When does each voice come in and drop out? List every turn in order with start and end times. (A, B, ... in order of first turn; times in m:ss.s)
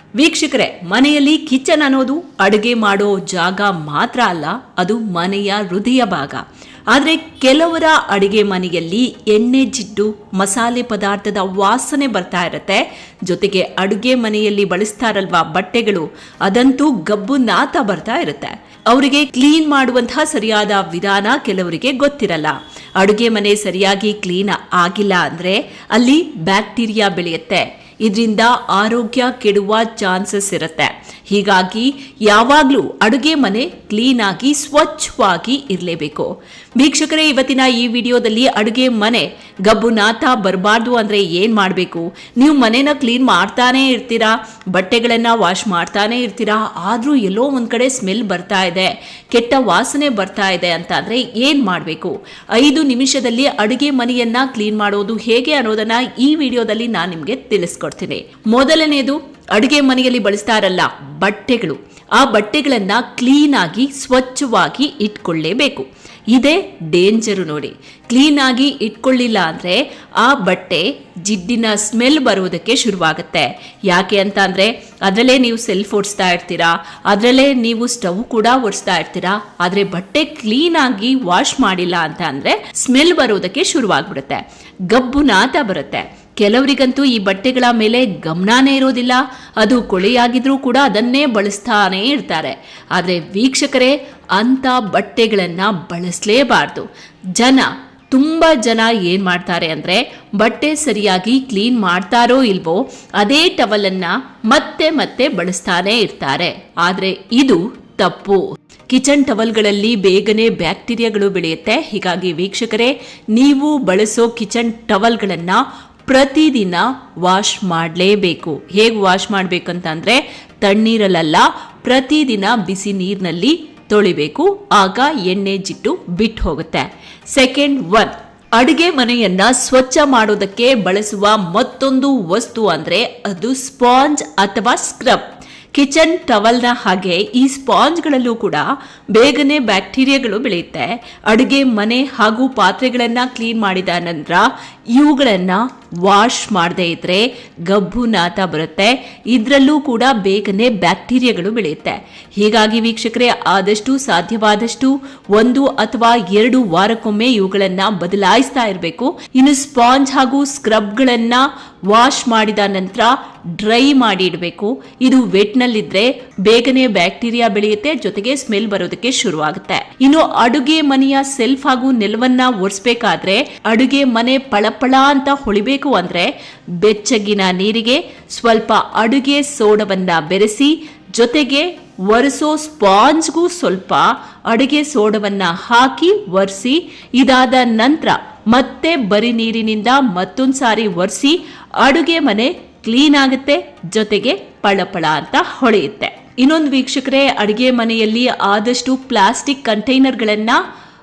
0:00.2-3:20.6 A